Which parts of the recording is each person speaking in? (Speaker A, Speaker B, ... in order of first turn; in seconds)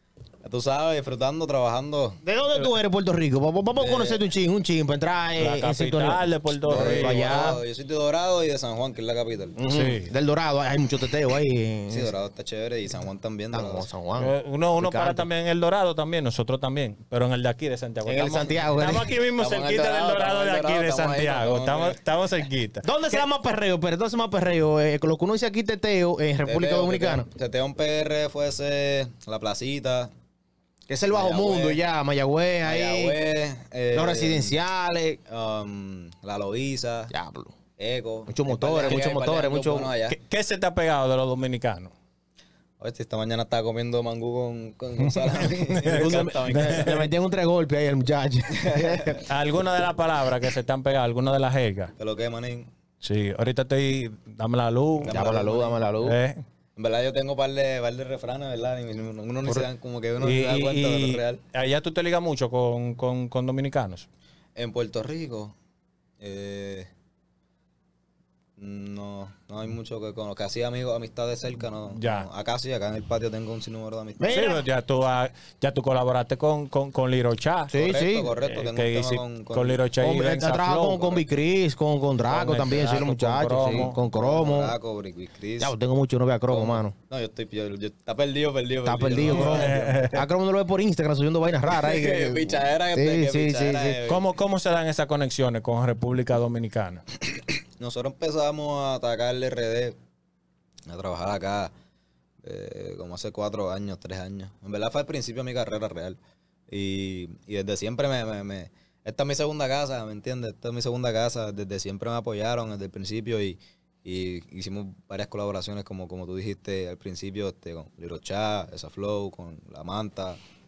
Speaker A: 0.4-2.2, 3.8-4.2, 6.7-9.6, 11.9-13.9, 18.2-22.0, 26.4-30.1, 31.1-31.8, 32.6-34.6, 35.3-37.1, 37.8-40.2, 42.8-47.1, 48.6-49.2, 52.0-52.7, 55.0-55.8, 56.8-61.4, 64.6-65.5, 66.2-66.9, 68.6-74.3, 77.8-79.8, 83.6-85.7, 86.5-90.1, 91.7-94.3, 97.8-100.0, 100.9-101.7, 102.4-106.2, 106.7-120.4
Speaker B: 2.2-7.6, 9.6-12.1, 13.5-15.3, 18.1-19.1, 22.8-27.3, 30.9-33.2, 33.9-35.2, 37.1-37.5, 38.3-39.9, 46.0-49.2, 55.1-56.2, 74.2-74.7, 77.7-78.3, 80.0-84.7, 85.6-87.0, 88.8-94.0
Speaker C: 5.4-7.5, 9.7-10.1, 14.2-23.3, 40.1-41.9, 45.1-47.0, 49.2-51.9, 53.0-55.2, 56.0-56.4, 60.2-64.1, 71.9-72.3, 74.3-77.7, 78.4-81.2, 82.3-84.0, 89.2-90.2, 94.1-97.0